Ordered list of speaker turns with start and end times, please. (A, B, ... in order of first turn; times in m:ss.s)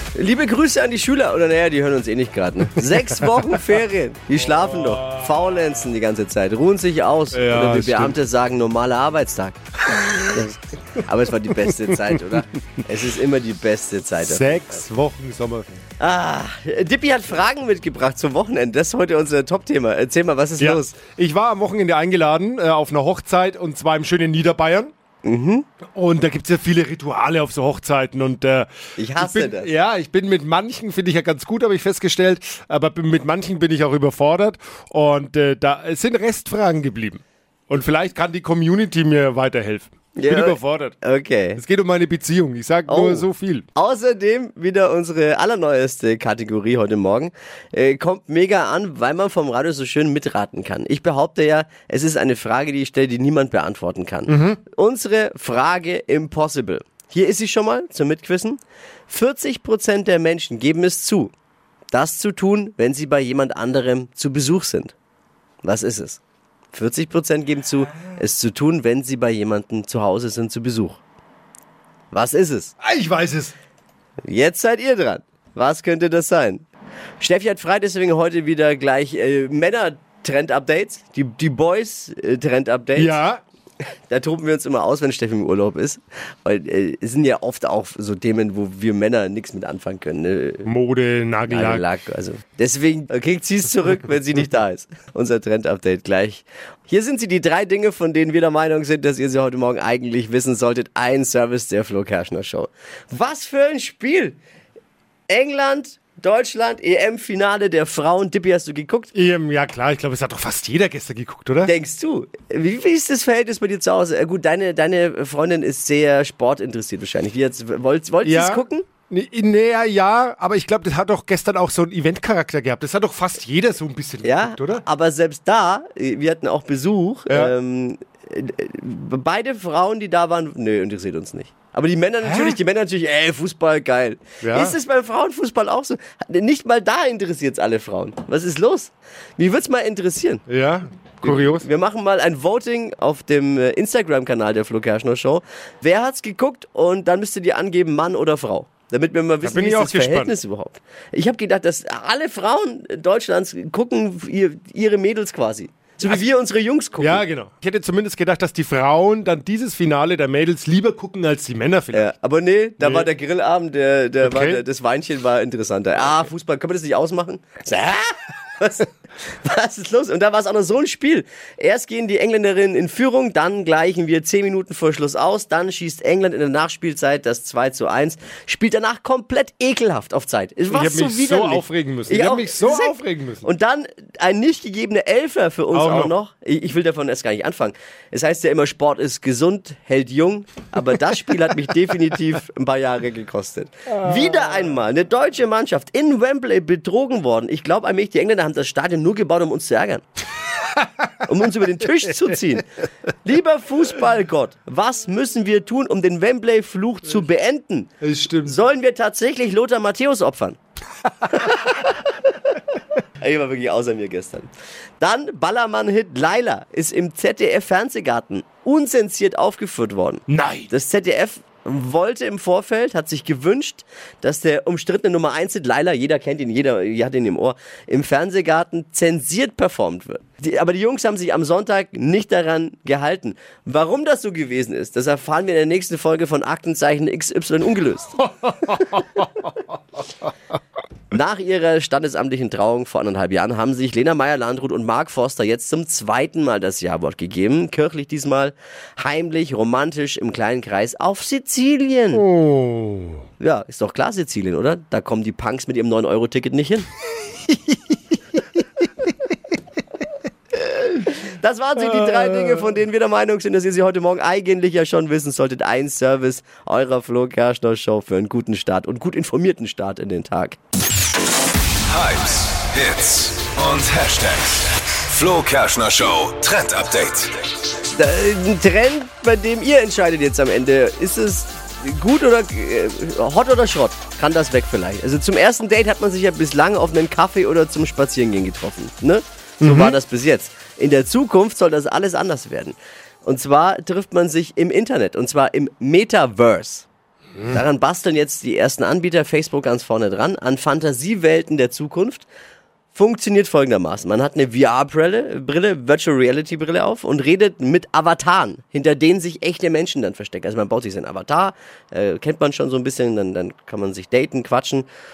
0:00.1-0:09.6 A
0:04.3-0:05.9 B
0:07.3-0:08.2 B
0:10.0-0:10.4 B
0:10.1-0:14.6 A
0:11.6-0:12.0 B
0:14.2-0:15.8 B
0:16.0-0:20.9 A
0:20.6-0:24.9 B
0:25.2-0:25.6 A
0:25.9-0:41.0 B
0:29.0-0:29.7 A
0:40.2-0:41.6 A
0:41.6-0:43.6 B
0:42.9-1:01.3 A
0:54.3-0:54.6 B
1:01.9-1:04.9 A
1:05.6-1:06.2 A
1:06.7-1:11.0 A
1:12.1-1:12.7 A
1:12.8-1:13.5 B
1:14.2-1:16.6 A
1:17.2-1:23.2 A
1:23.0-1:23.4 B
1:24.1-1:30.7 A
1:30.6-1:31.9 B
1:31.5-1:44.4 A
1:45.3-1:49.1 A
1:49.1-1:51.7 B
1:51.6-1:58.9 A
1:58.2-2:04.8 B
2:04.2-2:20.4 A
2:07.3-2:07.5 B
2:12.2-2:12.6 B
2:14.4-2:14.8 B
2:20.5-2:21.6 B
2:21.2-2:37.2 A
2:29.4-2:30.3 B
2:37.0-2:42.1 B
2:41.9-3:20.0 A
2:42.8-2:43.1 B
2:44.2-2:44.6 B
3:00.7-3:03.4 B
3:05.7-3:06.1 B
3:21.2-3:22.6 A
3:23.2-3:27.9 A
3:28.0-3:28.5 B
3:28.4-3:30.6 A
3:31.4-3:31.8 A
3:33.2-3:34.5 A
3:35.0-3:58.8 A
3:40.3-3:40.7 B
4:01.1-4:12.2 A
4:12.1-4:13.2 B
4:13.4-4:16.9 A
4:20.8-4:30.6 A
4:21.8-4:22.8 B
4:31.9-4:37.4 C
4:37.9-4:56.9 A
4:49.6-4:50.0 B
4:57.5-5:02.2 A
5:02.9-5:14.9 A